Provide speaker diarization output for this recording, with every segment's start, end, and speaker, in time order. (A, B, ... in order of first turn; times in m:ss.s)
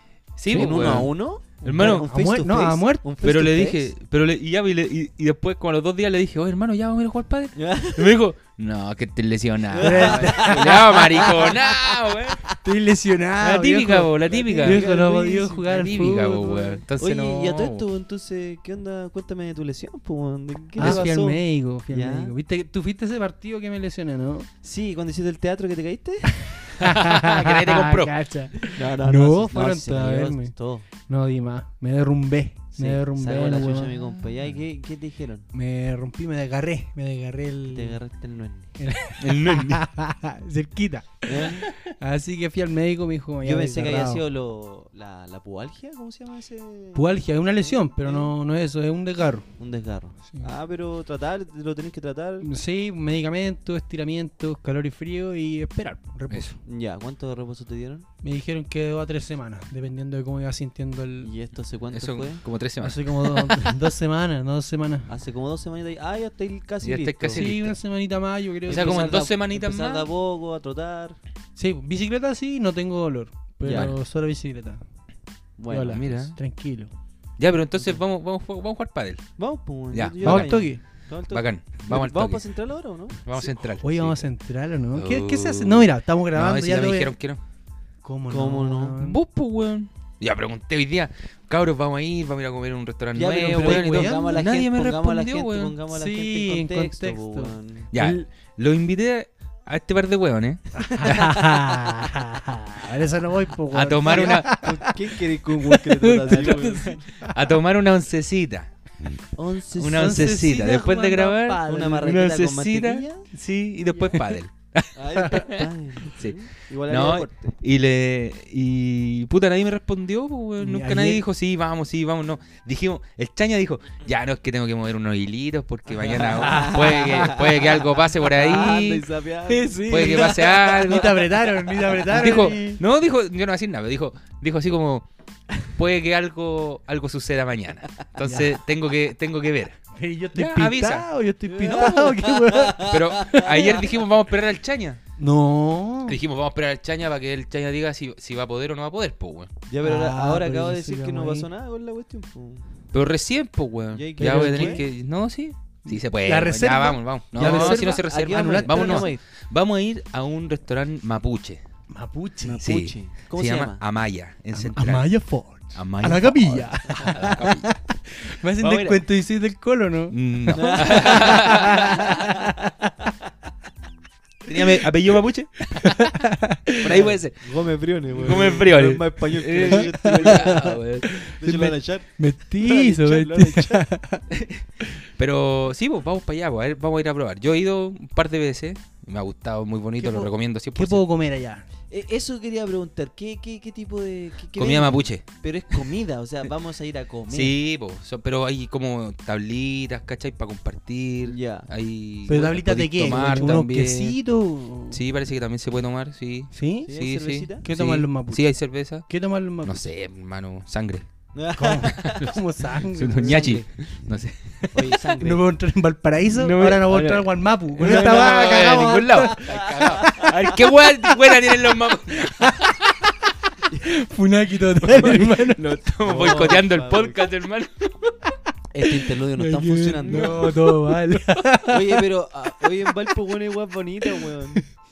0:00.4-0:02.1 A
0:00.5-0:03.9 B
0:00.5-0:01.1 C
0:01.8-0:03.1 C
0:03.2-0:12.5 A
0:07.6-0:08.2 B
0:09.7-0:12.6 B
0:09.8-0:11.5 C
0:12.6-0:16.8 C
0:13.4-0:14.9 A
0:14.2-0:15.8 B
0:15.7-0:17.8 A
0:17.0-0:22.4 B
0:20.8-0:24.5 C
0:24.6-0:26.9 B
0:26.8-0:28.2 A
0:26.8-0:34.0 C
0:28.7-0:30.9 B
0:32.8-0:35.5 B
0:35.5-0:38.0 C
0:37.7-0:38.8 B
0:38.8-0:44.2 C
0:39.2-0:39.9 A
0:41.2-0:41.7 B
0:43.4-0:47.1 B
0:47.0-0:49.5 C
0:47.6-0:48.3 B
0:49.6-0:52.5 B
0:52.4-0:56.6 C
0:56.6-0:58.1 B
0:58.2-1:01.3 C
1:01.2-1:02.4 B
1:01.9-1:03.7 A
1:02.8-1:05.1 C
1:05.1-1:07.5 B
1:06.8-1:07.8 A
1:07.3-1:09.2 C
1:08.7-1:11.2 B
1:08.7-1:10.1 A
1:11.6-1:14.8 C
1:13.6-1:13.9 B
1:13.7-1:14.0 A
1:15.6-1:16.2 B
1:15.7-1:16.9 C
1:15.8-1:16.4 A
1:17.4-1:19.4 A
1:19.4-1:23.5 B
1:19.9-1:22.4 A
1:20.2-1:20.8 C
1:23.2-1:24.3 A
1:23.8-1:27.1 C
1:24.9-1:27.4 A
1:28.0-1:29.2 C
1:28.3-1:29.0 B
1:29.0-1:35.8 A
1:33.2-1:37.9 B
1:33.4-1:34.4 C
1:35.9-1:38.2 C
1:37.9-1:41.4 A
1:40.8-1:47.4 C
1:40.9-1:41.5 B
1:43.7-1:44.6 A
1:44.0-1:47.0 B
1:46.3-1:48.7 A
1:49.4-1:50.4 B
1:49.8-2:09.1 A
1:49.9-1:52.1 C
1:51.6-1:53.3 B
1:53.9-1:54.3 B
1:54.9-1:57.6 B
2:00.6-2:01.2 C
2:05.9-2:10.8 B
2:06.3-2:07.3 C
2:09.5-2:12.7 C
2:09.9-2:15.1 A
2:11.9-2:12.8 B
2:15.6-2:19.8 A
2:18.2-2:18.6 C
2:20.0-2:23.7 C
2:20.3-2:21.1 A
2:21.5-2:23.9 B
2:22.8-2:25.0 A
2:25.2-2:26.2 C
2:26.1-2:29.5 A
2:29.7-2:32.7 B
2:29.8-2:31.5 C
2:32.9-2:41.6 A
2:33.9-2:34.9 B
2:34.2-2:34.9 C
2:35.9-2:39.1 C
2:37.4-2:39.2 B
2:41.9-2:42.6 C
2:42.4-2:43.8 B
2:42.6-2:45.2 A
2:44.5-2:52.6 C
2:45.7-2:47.7 A
2:46.9-2:47.3 B
2:48.6-2:49.0 A
2:50.1-2:52.1 A
2:50.5-2:53.1 B
2:54.5-2:56.1 A
2:55.8-2:57.0 C
2:56.8-2:57.5 A
2:56.8-3:03.8 B
2:58.1-3:01.3 A
2:58.2-2:58.8 C
2:59.6-3:04.2 C
3:05.2-3:11.0 A
3:10.0-3:11.7 C
3:11.9-3:17.6 B
3:14.6-3:15.2 A
3:17.3-3:24.2 A
3:21.2-3:21.7 B
3:22.3-3:25.0 C
3:24.9-3:29.1 A
3:26.5-3:27.0 C
3:26.8-3:27.6 B
3:27.6-3:28.5 C
3:29.1-3:29.8 C
3:29.6-3:31.0 A
3:31.3-3:32.4 B
3:31.6-3:33.6 C
3:32.9-3:34.9 A
3:33.2-3:34.0 B
3:34.7-3:35.4 B
3:35.2-3:40.2 C
3:36.3-3:43.1 A
3:37.8-3:38.7 B
3:39.2-3:40.6 B
3:43.8-3:45.6 C
3:44.8-3:48.2 A
3:44.9-3:45.2 B
3:46.0-3:47.2 B
3:48.7-3:50.5 B
3:49.4-3:52.0 C
3:50.1-3:51.2 A
3:51.7-3:54.6 B